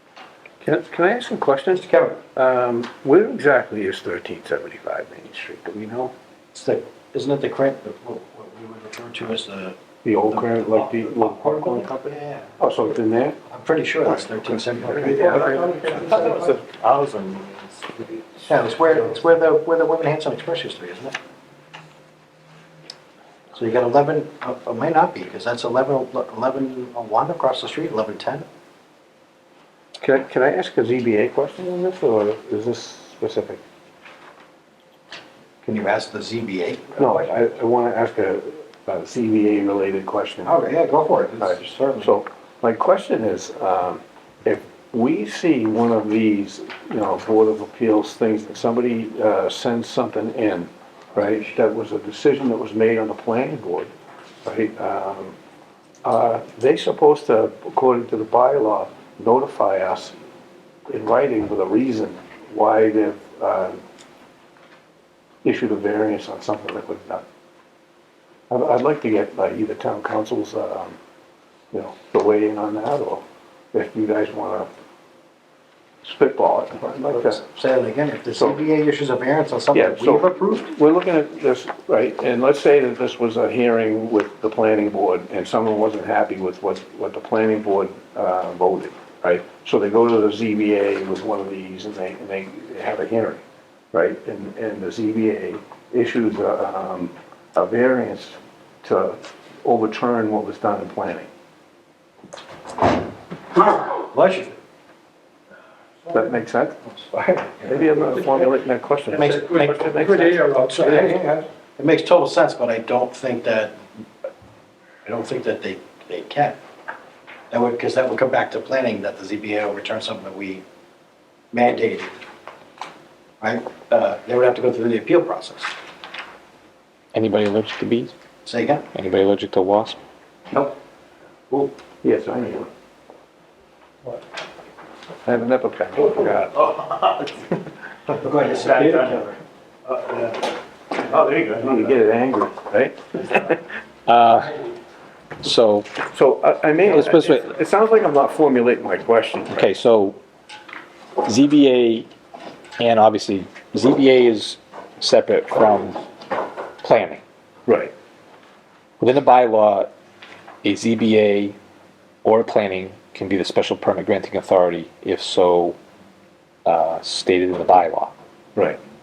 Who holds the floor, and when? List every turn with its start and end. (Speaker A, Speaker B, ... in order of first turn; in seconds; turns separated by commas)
Speaker A: 0.6-6.1, Speaker B: 1.7-2.2, Speaker B: 6.5-9.8, Speaker A: 10.0-13.4, Speaker B: 11.2-12.5, Speaker B: 13.5-16.3, Speaker A: 14.9-16.4, Speaker C: 15.2-18.3, Speaker B: 18.4-21.2, Speaker B: 23.5-28.4, Speaker A: 30.0-33.6, Speaker B: 35.6-37.3, Speaker A: 37.0-40.6, Speaker B: 40.4-42.2, Speaker A: 41.4-53.9, Speaker A: 54.4-55.4, Speaker A: 56.0-60.1, Speaker A: 60.9-63.8, Speaker A: 65.4-67.2, Speaker A: 68.5-71.0, Speaker A: 71.7-74.7, Speaker A: 76.0-77.4, Speaker B: 77.1-80.7, Speaker A: 78.3-78.6, Speaker A: 79.7-93.4, Speaker A: 93.9-101.3, Speaker B: 103.5-104.6, Speaker A: 106.1-106.8, Speaker B: 106.9-107.7, Speaker A: 107.6-111.2, Speaker B: 109.1-113.8, Speaker B: 115.0-116.6, Speaker B: 117.5-120.6, Speaker B: 121.5-122.2, Speaker B: 123.4-125.7, Speaker D: 127.1-128.1, Speaker B: 128.5-128.9, Speaker D: 128.9-130.0, Speaker B: 130.5-130.7, Speaker A: 132.0-132.7, Speaker A: 135.2-136.7, Speaker C: 136.7-137.4, Speaker B: 138.2-139.3, Speaker C: 138.5-139.2, Speaker C: 139.8-140.4, Speaker C: 141.0-141.8, Speaker A: 141.4-143.6, Speaker D: 144.1-144.6, Speaker D: 145.4-145.9, Speaker A: 146.1-149.7, Speaker D: 146.9-147.5, Speaker D: 149.5-150.2, Speaker D: 151.2-152.1, Speaker D: 152.8-156.0, Speaker D: 156.8-157.2, Speaker A: 157.7-157.9, Speaker D: 159.0-159.9, Speaker D: 160.6-161.6, Speaker D: 162.2-165.8, Speaker D: 166.7-168.1